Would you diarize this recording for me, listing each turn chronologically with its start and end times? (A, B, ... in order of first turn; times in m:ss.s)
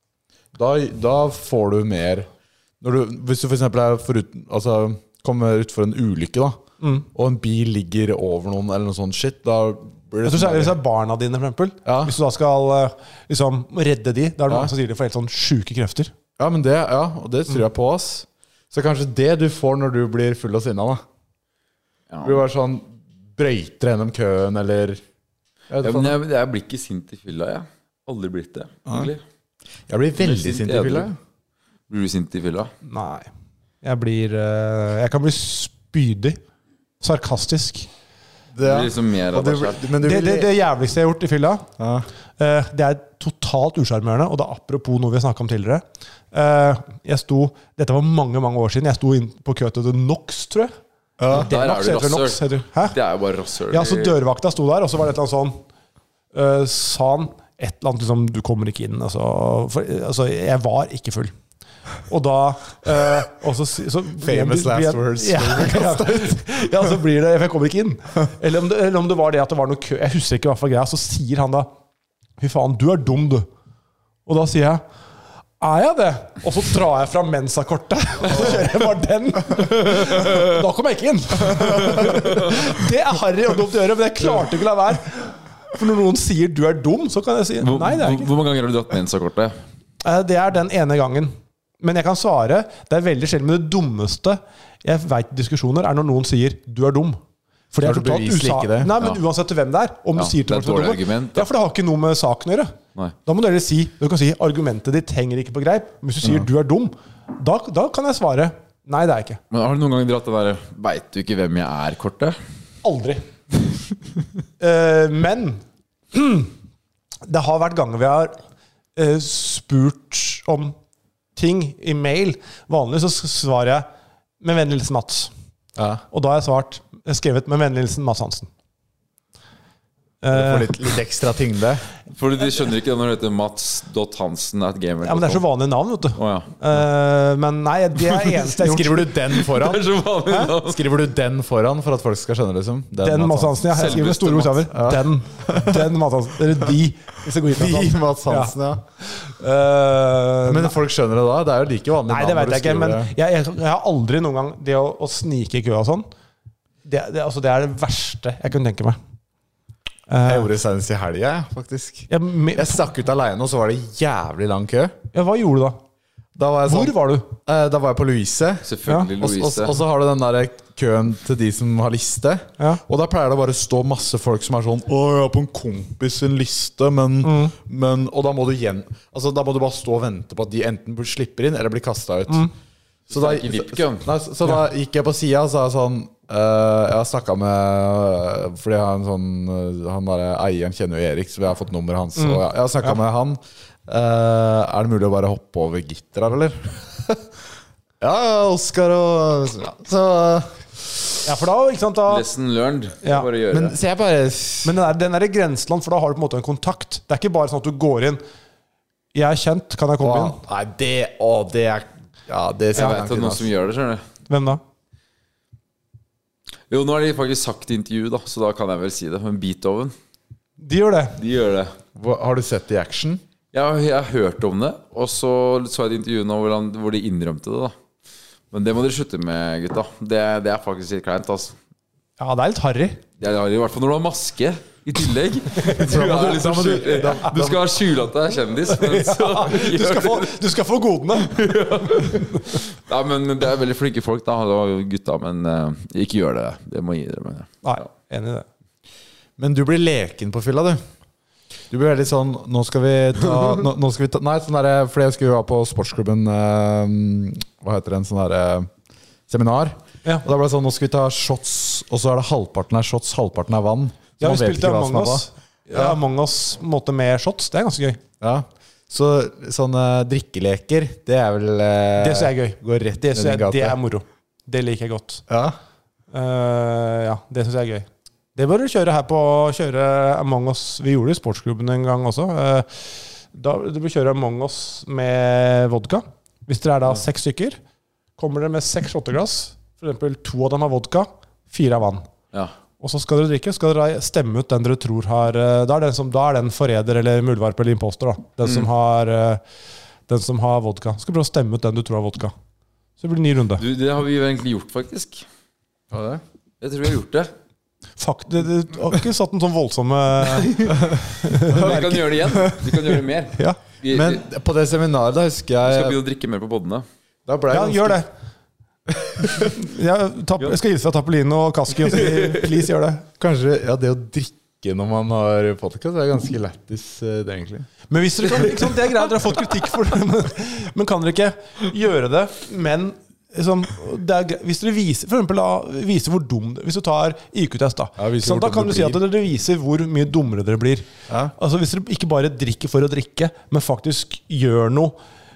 0:00.5-0:02.3 A
0:02.8-0:06.6 A
0:06.8-0:07.1 B
0:07.1-0:10.8 A
0:10.2-0:16.1 B
0:11.8-0:12.1 A
0:16.4-0:21.0 A
0:22.1-0:22.4 C
0:22.2-0:25.0 A
0:25.7-0:26.2 A
0:25.8-0:29.2 C
0:29.9-0:31.2 A
0:30.2-0:31.1 C
0:31.9-0:32.7 C
0:32.8-0:33.3 B
0:33.8-0:36.4 B
0:37.0-0:37.9 B
0:38.5-0:40.5 A
0:38.6-0:39.8 C
0:40.0-0:41.7 B
0:41.8-0:42.1 A
0:42.4-0:50.7 B
0:51.2-0:51.5 A
0:51.3-0:53.0 B
0:51.3-0:54.2 C
0:53.7-0:55.6 B
0:56.3-1:01.3 B
1:02.1-1:11.7 B
1:04.2-1:06.5 A
1:12.4-1:13.5 B
1:14.2-1:14.8 B
1:15.6-1:28.3 B
1:20.0-1:20.4 C
1:27.6-1:29.6 C
1:30.0-1:37.2 B
1:37.7-1:49.4 B
1:37.8-1:38.9 A
1:40.2-1:41.5 C
1:49.5-1:52.4 C
1:52.8-1:53.2 B
1:54.6-1:56.5 B
1:57.2-1:58.4 B
1:59.0-2:00.7 B
2:01.4-2:03.9 B
2:04.4-2:05.3 B
2:05.8-2:06.0 A
2:06.1-2:08.5 B
2:10.2-2:10.7 B
2:10.3-2:11.8 A
2:12.1-2:15.4 C
2:15.0-2:19.1 B
2:16.2-2:16.5 C
2:18.5-2:19.9 A
2:19.4-2:20.8 C
2:20.6-2:23.7 A
2:23.0-2:30.8 B
2:23.7-2:24.7 C
2:24.7-2:25.9 A
2:27.5-2:28.8 A
2:30.4-2:33.1 A
2:32.1-2:36.1 B
2:36.8-2:39.0 B
2:40.1-2:40.5 B
2:40.2-2:44.9 A
2:42.1-2:42.8 B
2:45.1-2:45.8 B
2:46.4-3:02.5 A
2:46.7-2:47.3 B
2:48.6-2:49.8 C
2:57.2-2:57.5 B
3:03.1-3:04.1 C
3:03.1-3:17.2 A
3:18.0-3:20.9 A
3:21.2-3:22.2 B
3:22.1-3:23.7 C
3:23.5-3:24.8 A
3:24.6-3:28.2 B
3:29.1-3:30.4 B
3:30.0-3:33.5 A
3:32.7-3:34.0 C
3:34.3-3:34.6 B
3:36.7-3:39.9 C
3:40.6-3:41.2 B
3:41.2-3:41.7 C
3:42.0-3:43.2 A
3:43.5-3:47.7 C
3:48.5-3:51.5 C
3:52.2-3:53.0 B
3:53.2-4:00.4 C
3:55.7-3:56.0 B
3:55.8-3:57.7 A
3:58.7-4:01.4 B
4:01.2-4:07.5 C
4:02.0-4:02.3 B
4:07.6-4:08.4 B
4:09.4-4:10.8 A
4:11.7-4:18.7 A
4:19.3-4:26.0 A
4:24.2-4:28.0 B
4:28.2-4:33.8 A
4:32.0-4:35.2 B
4:35.3-4:35.6 A
4:36.1-4:47.6 B
4:48.2-4:52.1 B
4:52.8-4:59.4 B
5:00.1-5:02.3 B
5:03.0-5:03.6 B
5:03.6-5:05.2 C
5:05.9-5:06.2 A
5:06.6-5:07.3 C
5:08.0-5:12.7 B
5:10.4-5:10.7 C
5:11.4-5:14.2 C
5:13.9-5:16.0 A
5:15.6-5:16.8 C
5:17.2-5:18.0 A
5:17.5-5:18.1 B
5:18.9-5:19.5 A
5:19.4-5:23.0 B
5:22.0-5:22.3 C
5:23.2-5:27.7 A
5:27.9-5:45.0 B
5:38.0-5:39.0 A
5:41.1-5:41.3 A